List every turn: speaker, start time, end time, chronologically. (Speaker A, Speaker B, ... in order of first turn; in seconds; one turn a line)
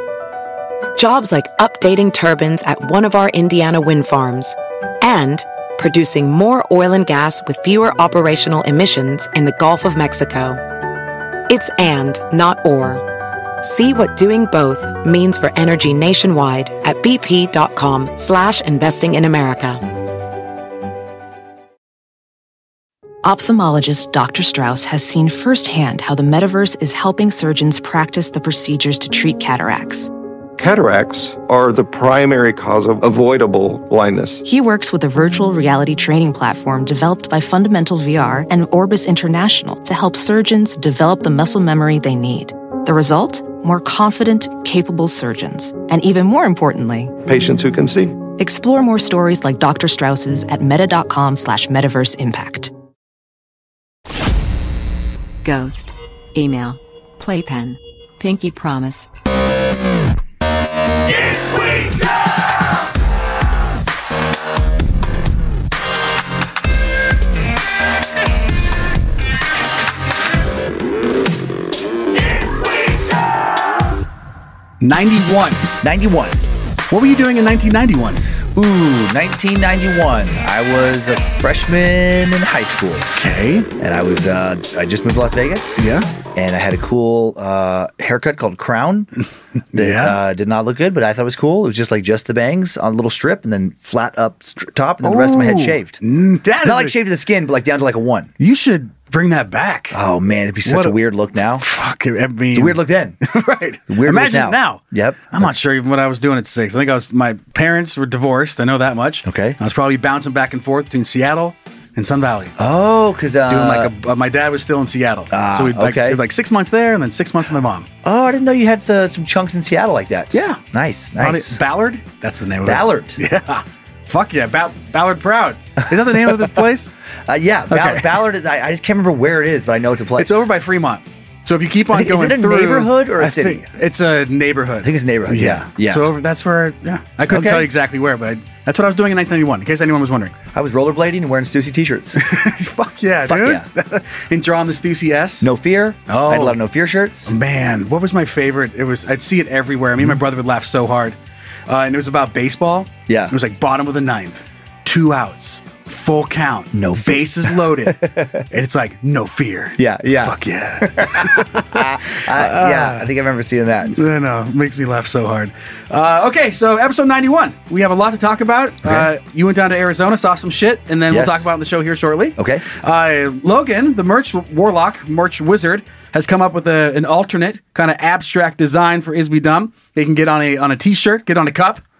Speaker A: 0.9-10.6
Speaker A: 11.5-13.0
Speaker A: 13.6-19.8
Speaker B: 23.2-30.1
Speaker C: 30.6-34.4
Speaker B: 34.4-47.1
Speaker C: 47.2-48.2
Speaker B: 48.4-52.7
Speaker D: 55.4-59.1
Speaker E: 74.8-75.7
Speaker F: 75.8-76.4
Speaker E: 76.9-78.2
Speaker F: 78.5-83.1
Speaker E: 83.2-83.7
Speaker F: 83.8-89.1
Speaker E: 85.8-86.1
Speaker E: 89.7-90.2
Speaker F: 89.7-96.0
Speaker E: 95.0-96.9
Speaker F: 96.6-98.3
Speaker E: 98.4-100.0
Speaker F: 99.9-101.7
Speaker E: 100.6-101.0
Speaker E: 101.6-112.5
Speaker F: 102.5-103.2
Speaker F: 103.9-105.5
Speaker F: 109.2-109.6
Speaker F: 112.6-113.9
Speaker E: 113.5-117.9
Speaker F: 115.3-116.2
Speaker F: 118.0-121.6
Speaker E: 120.3-120.6
Speaker E: 121.2-126.9
Speaker F: 122.6-123.2
Speaker F: 125.9-126.7
Speaker F: 127.3-130.5
Speaker E: 127.7-128.2
Speaker E: 130.2-140.3
Speaker F: 131.9-133.7
Speaker F: 134.8-136.1
Speaker F: 137.3-137.7
Speaker F: 140.5-142.2
Speaker E: 142.2-145.5
Speaker F: 143.2-143.7
Speaker F: 145.4-147.3
Speaker E: 146.1-146.6
Speaker E: 147.3-151.2
Speaker E: 151.7-163.0
Speaker F: 153.1-153.3
Speaker F: 156.7-158.4
Speaker F: 159.8-164.1
Speaker E: 163.9-181.8
Speaker F: 168.8-169.1
Speaker F: 171.1-171.5
Speaker F: 172.4-172.7